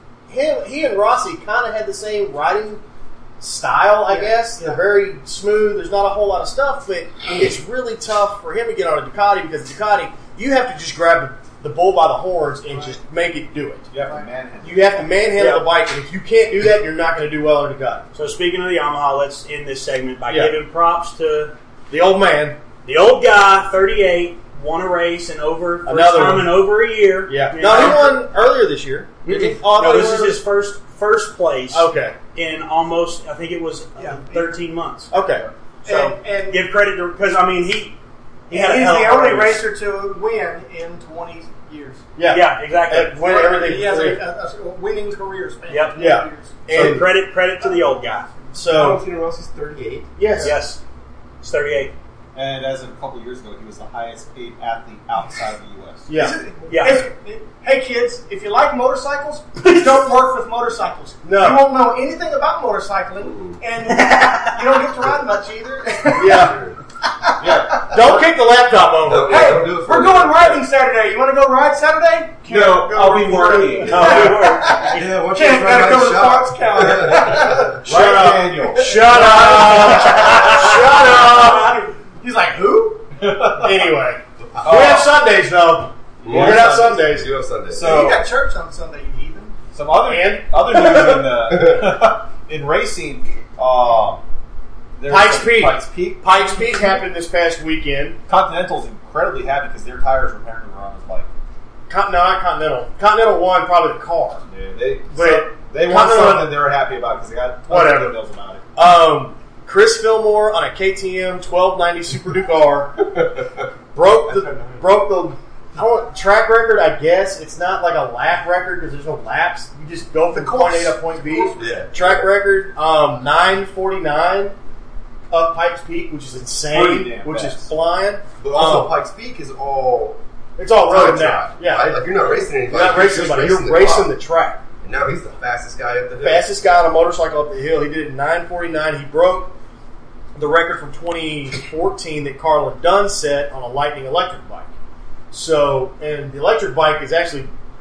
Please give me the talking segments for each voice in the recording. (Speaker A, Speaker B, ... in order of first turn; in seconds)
Speaker A: 0.3-2.8, 3.4-13.8, 14.6-18.1, 20.3-20.6, 21.9-22.6, 25.8-26.6, 27.3-30.4, 31.7-32.2, 35.1-35.5, 42.1-44.2, 46.0-47.1, 48.5-49.0, 50.2-50.5, 56.1-56.4, 61.2-61.7, 66.2-66.6, 67.9-69.5, 77.8-81.8, 83.6-87.3, 90.0-90.6, 95.1-98.2, 101.9-104.4, 105.1-106.6, 107.7-108.2, 108.7-113.1, 113.9-124.5, 125.3-128.9, 130.6-132.1, 132.7-134.6, 136.2-139.5, 140.3-144.7, 145.3-147.5
Speaker B: 4.1-4.8, 12.7-13.0, 34.0-34.5, 35.8-36.6, 38.5-42.0, 43.2-46.6, 56.1-66.5, 67.2-68.0, 69.2-77.8, 78.8-83.0, 87.8-89.5, 120.3-121.7
Speaker C: 13.9-15.2, 52.3-56.1, 67.4-68.2, 72.5-74.5, 77.8-79.6, 83.2-83.9, 84.6-85.1, 86.2-87.2, 87.7-88.2, 89.7-94.2, 95.0-96.6, 98.3-101.3, 104.5-108.6, 126.6-127.7
Speaker D: 15.4-15.7, 18.1-21.5, 22.8-28.2, 29.2-35.2, 35.8-38.0, 38.5-39.6, 42.3-43.2, 45.7-46.0, 46.6-48.3, 50.4-50.8, 51.4-51.9, 56.7-57.1, 59.6-59.9, 63.9-64.6, 73.8-75.0
Speaker E: 48.7-50.1, 63.2-63.6, 66.1-66.8, 69.0-70.5, 74.1-77.8, 86.2-88.1, 91.5-91.8, 113.1-113.6, 121.6-122.3, 128.4-130.2, 130.8-134.1, 134.8-136.5